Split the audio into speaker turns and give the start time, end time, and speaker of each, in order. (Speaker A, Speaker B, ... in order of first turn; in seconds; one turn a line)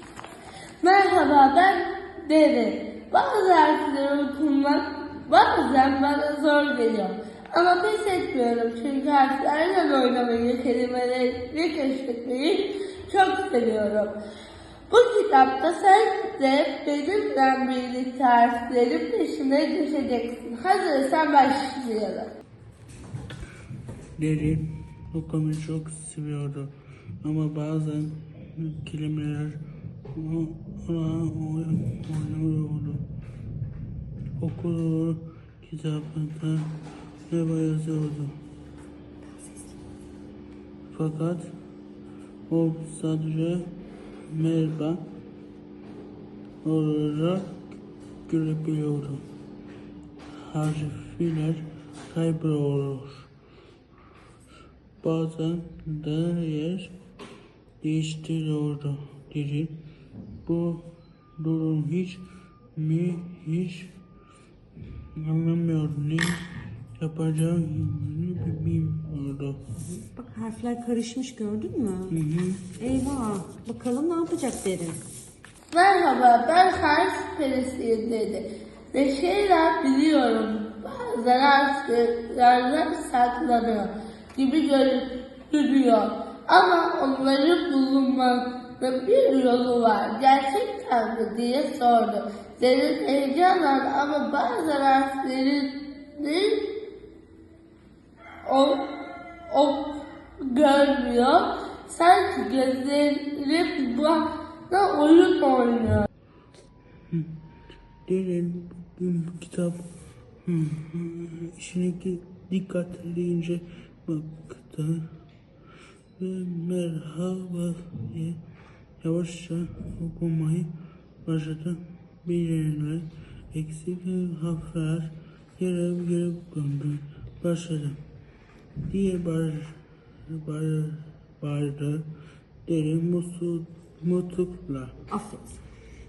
Speaker A: 0.8-14.2
Speaker A: 14.9-22.3
Speaker B: 24.2-29.6
Speaker B: 30.1-33.1
Speaker B: 34.4-38.4
Speaker B: 40.9-41.5
Speaker B: 42.5-43.7
Speaker B: 44.3-45.0
Speaker B: 46.6-49.2
Speaker B: 50.5-53.3
Speaker B: 55.0-57.0
Speaker B: 57.8-59.8
Speaker B: 60.5-62.2
Speaker B: 62.8-64.0
Speaker B: 65.2-69.7
Speaker C: 69.8-72.2
Speaker B: 72.1-72.7
Speaker C: 72.8-75.0
Speaker A: 75.7-96.7
Speaker A: 98.4-98.9
Speaker A: 99.5-99.9
Speaker A: 100.4-106.1
Speaker B: 108.1-109.9
Speaker B: 110.5-115.1
Speaker B: 116.2-118.4
Speaker B: 119.0-120.7
Speaker B: 121.2-128.0
Speaker B: 128.8-132.1
Speaker B: 132.7-135.0
Speaker C: 135.1-135.6